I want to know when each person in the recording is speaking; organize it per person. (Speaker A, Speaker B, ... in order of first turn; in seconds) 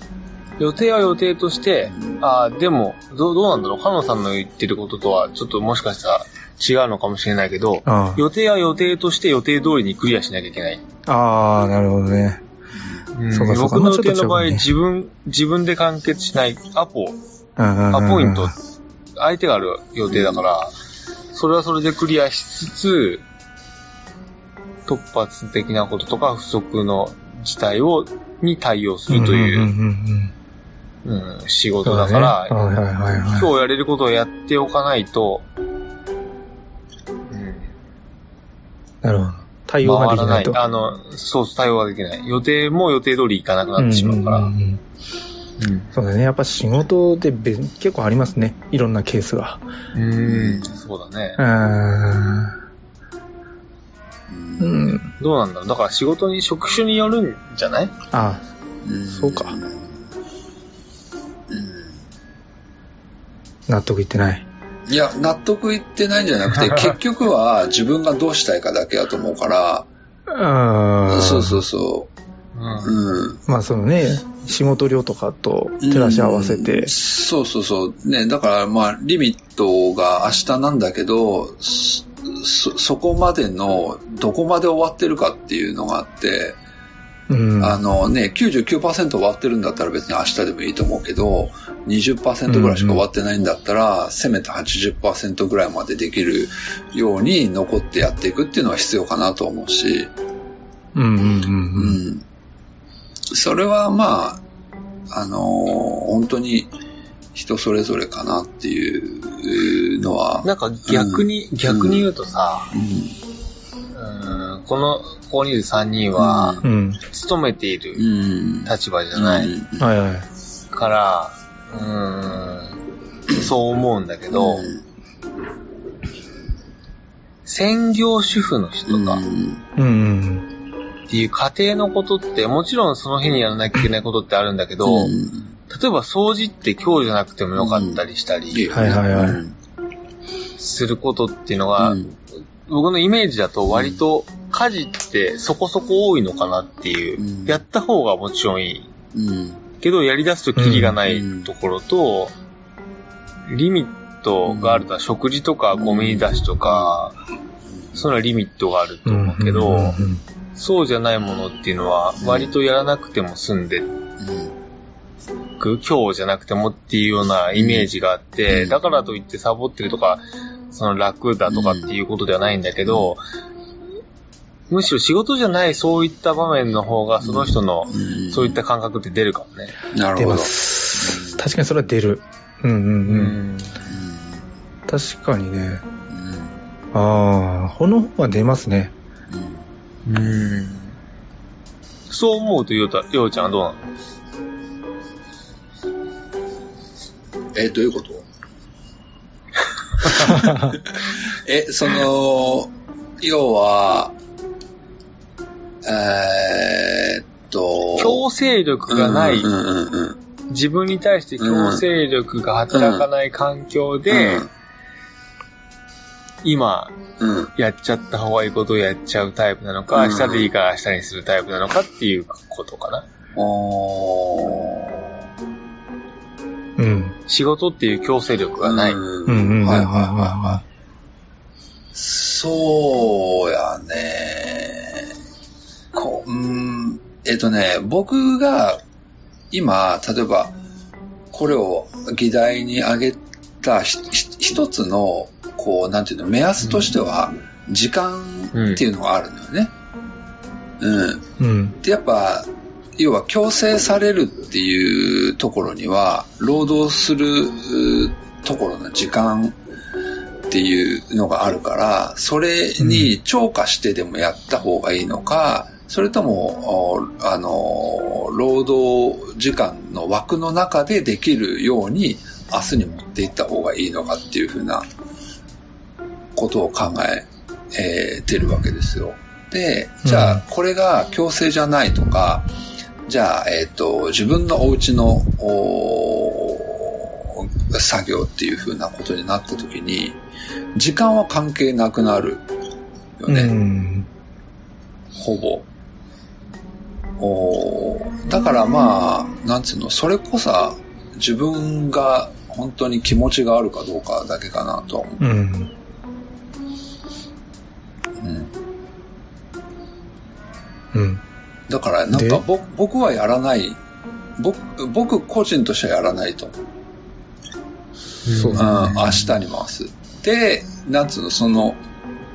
Speaker A: 0.6-10.8, 13.1-17.2, 17.9-18.5, 19.2-20.7, 21.3-23.2, 24.9-29.7, 31.0-32.5, 33.1-35.5, 37.3-37.7, 39.8-44.5, 45.6-45.9, 49.9-51.4, 55.2-57.9, 72.5-72.9, 110.4-112.7, 113.9-118.1, 118.6-119.5, 120.7-124.7, 127.5-129.2, 131.1-135.2, 135.7-139.0, 140.6-142.0, 142.7-148.9, 149.8-152.3, 153.5-157.2, 157.9-160.0, 160.6-163.9, 165.6-173.2, 174.7-179.7, 183.1-183.8, 190.0-190.9, 192.1-193.9, 208.0-209.5, 210.5-214.5, 216.4-216.9, 217.6-223.0, 227.3-229.0, 248.5-248.8, 318.2-319.3
Speaker B: 1.9-2.2, 12.8-13.0, 20.1-20.4, 50.2-50.7, 54.3-54.9, 58.8-60.0, 61.5-62.0, 64.9-69.9, 71.1-72.1, 72.8-73.4, 75.8-86.6, 87.6-100.1, 101.8-102.2, 103.3-104.4, 105.1-106.7, 107.3-112.0, 112.7-113.2, 116.2-116.6, 117.9-119.9, 124.3-124.8, 128.9-129.6, 134.8-135.5, 137.6-139.6, 141.8-142.1, 143.7-144.0, 147.2-147.6, 149.1-149.6, 151.0-151.5, 154.4-154.9, 155.8-156.9, 157.7-158.1, 162.2-162.5, 164.2-164.5, 167.5-167.9, 168.5-168.8, 171.5-171.9, 172.9-173.1, 177.2-178.6, 179.9-181.4, 183.9-184.3, 186.1-186.5, 189.3-189.6, 197.5-198.3, 200.5-204.1, 205.8-208.2, 208.9-210.2, 211.4-211.8, 212.7-213.1, 214.1-214.5, 217.2-217.5, 219.9-220.5, 223.3-225.1, 228.6-230.6, 231.9-235.1, 235.9-238.8, 239.5-240.6, 241.3-249.7, 250.8-251.2, 251.8-259.6, 260.5-274.8, 276.4-282.5, 283.0-290.2, 290.7-292.4, 293.2-293.5, 295.1-295.7, 297.2-305.2, 308.2-308.5, 311.7-313.8, 314.4-316.6, 318.6-321.8
Speaker C: 7.8-8.2, 11.1-12.4, 13.3-14.7, 17.6-18.5, 29.1-30.3, 31.9-33.5, 39.0-40.6, 43.8-44.8, 45.9-49.6, 51.4-52.5, 54.6-55.1, 58.1-58.4, 59.1-59.6, 63.7-64.5, 70.3-71.6, 73.5-76.9, 87.3-87.8, 92.5-93.0, 100.9-102.0, 116.6-117.0, 119.8-120.3, 129.8-130.4, 138.7-139.4, 150.6-151.0, 159.1-160.2, 180.2-183.4, 184.9-185.8, 186.9-188.9, 200.2-200.8, 226.8-227.2, 229.3-230.6, 251.4-251.8, 262.8-263.1, 280.0-280.4, 293.3-294.1, 305.2-305.7, 310.9-311.2, 312.1-312.4, 318.3-318.9